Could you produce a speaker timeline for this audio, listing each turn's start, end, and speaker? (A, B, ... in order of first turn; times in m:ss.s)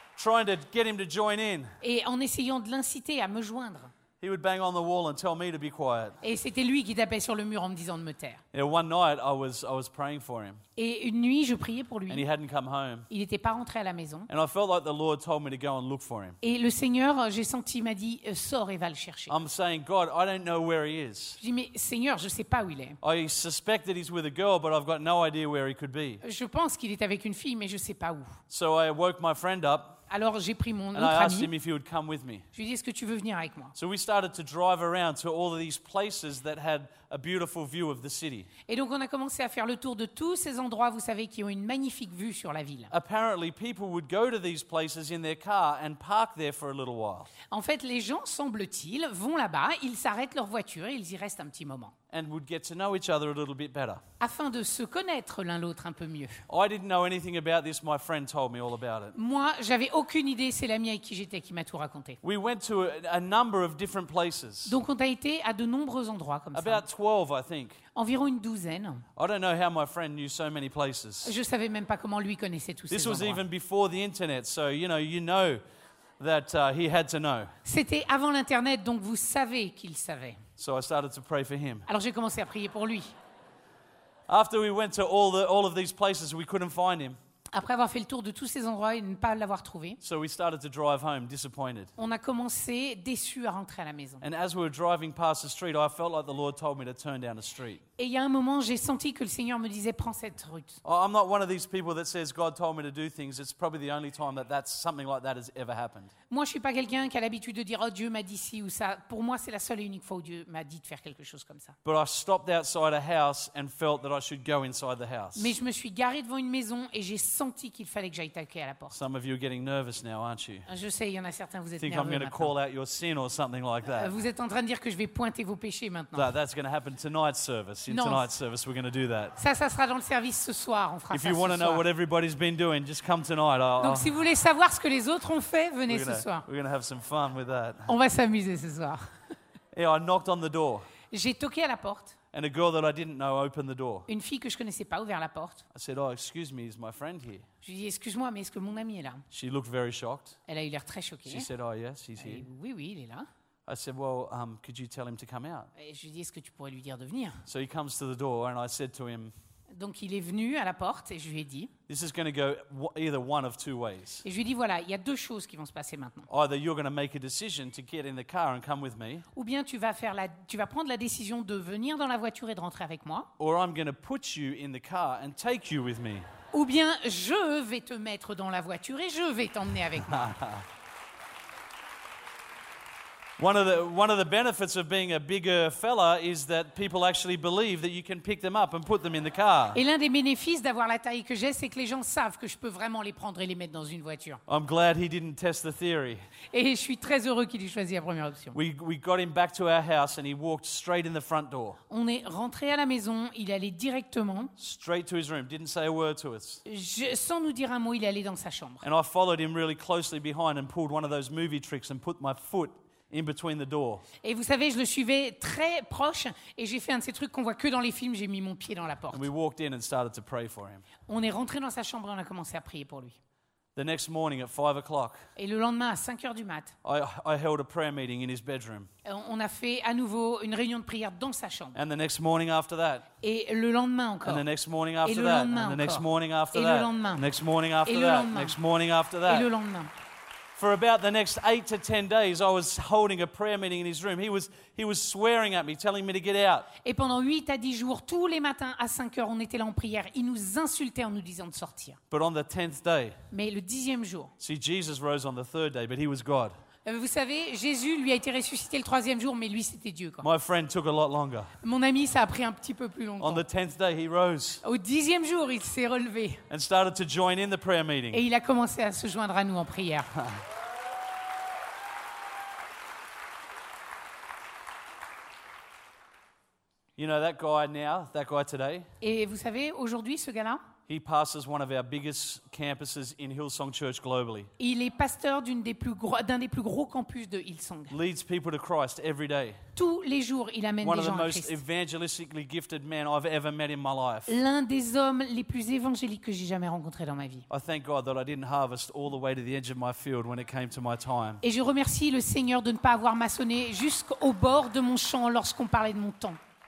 0:00.2-0:01.8 A
0:01.8-0:03.9 B
0:04.2-0:06.2 A
0:06.2-0:08.4 B
0:08.5-0:10.6 A
0:10.8-0:12.2 B
0:12.1-0:13.1 A
0:13.1-0:14.3 B
0:14.3-0:16.4 A
0:16.4-0:19.3 B
0:19.3-0:21.4 A
0:21.4-0:23.0 B
0:23.0-0:26.2 A
0:26.2-0:28.4 B
0:28.5-0:30.0 A
0:30.1-0:31.5 B
0:30.9-0:32.5 A
0:32.5-0:33.7 B
0:33.8-0:38.5 A
0:38.7-0:42.9 B
0:42.9-0:47.3 A
0:47.5-0:51.9 B
0:52.1-0:54.0 A
0:54.2-0:56.4 B
0:56.5-0:59.2 A
0:59.2-1:02.2 B
1:02.2-1:04.8 A
1:04.7-1:06.8 B
1:06.5-1:07.8 A
1:08.0-1:09.0 B
1:09.2-1:11.4 A
1:11.2-1:13.4 B
1:12.9-1:15.6 A
1:16.2-1:17.5 A
1:17.6-1:20.4 B
1:20.6-1:21.9 A
1:21.9-1:23.1 B
1:24.3-1:27.2 A
1:27.5-1:30.0 B
1:30.0-1:31.9 A
1:32.0-1:34.2 B
1:34.2-1:37.8 A
1:38.0-1:40.8 B
1:40.8-1:46.1 A
1:46.3-1:51.8 B
1:51.8-1:55.5 A
1:55.4-1:59.0 B
1:58.9-2:00.7 A
2:00.7-2:02.5 B
2:01.8-2:04.1 A
2:03.9-2:06.3 B
2:06.2-2:09.4 A
2:07.9-2:08.3 B
2:09.4-2:11.8 B
2:11.1-2:14.2 A
2:13.8-2:16.5 B
2:15.9-2:17.9 A
2:17.9-2:19.0 B
2:19.7-2:20.8 A
2:21.1-2:22.2 B
2:22.3-2:24.1 A
2:24.1-2:25.6 B
2:25.7-2:27.5 A
2:27.6-2:29.2 B
2:29.3-2:30.4 A
2:30.5-2:31.5 B
2:31.3-2:32.5 A
2:32.2-2:33.3 B
2:33.7-2:35.7 A
2:35.8-2:37.4 B
2:37.5-2:39.3 A
2:39.7-2:41.7 B
2:41.9-2:44.2 A
2:44.2-2:46.3 B
2:46.3-2:49.3 A
2:49.3-2:53.3 B
2:53.4-2:56.3 A
2:56.5-3:00.4 B
3:00.1-3:00.6 A
3:03.4-3:09.8 A
3:09.7-3:14.4 B
3:14.5-3:16.2 A
3:16.5-3:18.6 B
3:18.5-3:21.8 A
3:21.9-3:24.5 B
3:24.6-3:26.6 A
3:26.7-3:28.8 B
3:28.8-3:34.0 A
3:34.2-3:39.3 B
3:39.1-3:40.9 A
3:41.1-3:43.2 B
3:43.8-3:45.3 A
3:45.4-3:46.8 B
3:46.8-3:48.9 A
3:49.0-3:51.8 B
3:51.8-3:53.1 A
3:53.2-3:54.4 B
3:54.2-3:59.5 A
3:55.0-3:57.2 B
3:57.8-3:58.6 B
3:59.3-3:59.9 B
4:00.6-4:06.7 A
4:06.8-4:12.0 B
4:12.1-4:13.2 A
4:13.3-4:14.3 B
4:14.4-4:16.5 A
4:16.8-4:20.3 B
4:20.2-4:21.5 A
4:21.6-4:23.4 B
4:23.2-4:24.6 A
4:24.6-4:26.4 B
4:26.5-4:28.2 A
4:28.1-4:30.1 B
4:30.2-4:30.4 A
4:37.0-4:38.9 A
4:39.0-4:40.6 B
4:40.9-4:44.5 A
4:44.6-4:47.9 B
4:47.9-4:49.6 A
4:49.8-4:51.6 B
4:50.8-4:54.4 A
4:54.3-4:57.5 B
4:57.5-5:01.4 A
5:01.4-5:06.4 B